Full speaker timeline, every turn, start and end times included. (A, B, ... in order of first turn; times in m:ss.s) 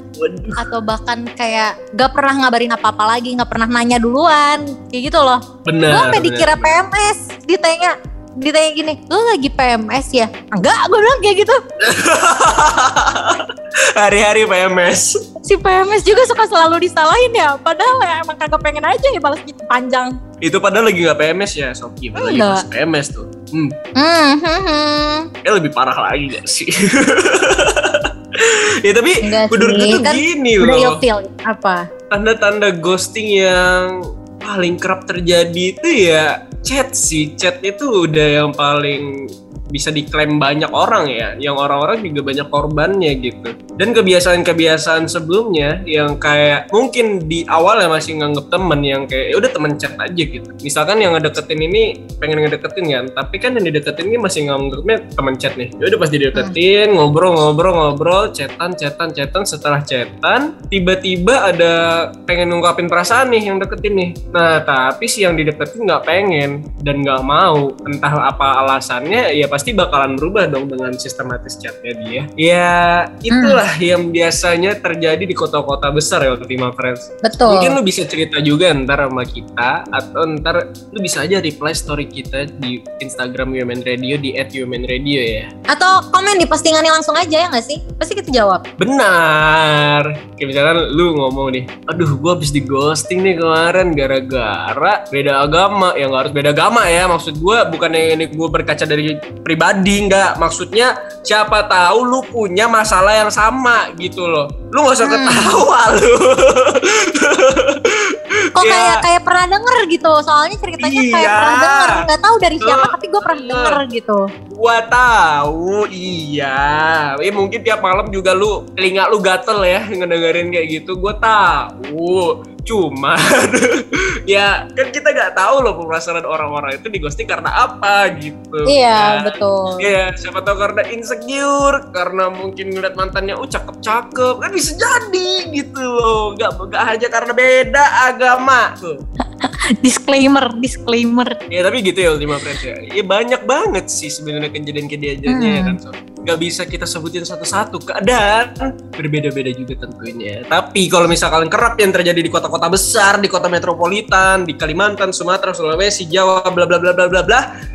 0:00.2-0:00.6 A
0:00.6-0:11.6 B
0:05.6-0:06.8 A
0:11.8-0:15.2 A
0:15.4-0:20.1 B
0:20.4-0:23.7 A
0:22.2-0:22.6 B
0:24.0-0:25.3 B
0:25.4-0:31.0 A
0:29.2-0:31.8 B
0:32.1-0:39.2 A
0:39.7-1:25.5 A
1:13.3-1:13.6 B
1:17.2-1:17.8 B
1:25.7-1:28.6 B
1:28.8-1:49.0 A
1:45.0-1:45.6 B
1:48.6-1:54.2 B
1:50.8-1:52.0 A
1:52.6-1:53.8 A
1:54.5-2:19.0 A
2:08.6-2:09.9 B
2:19.4-2:21.4 B
2:21.5-2:37.5 A
2:25.3-2:25.8 B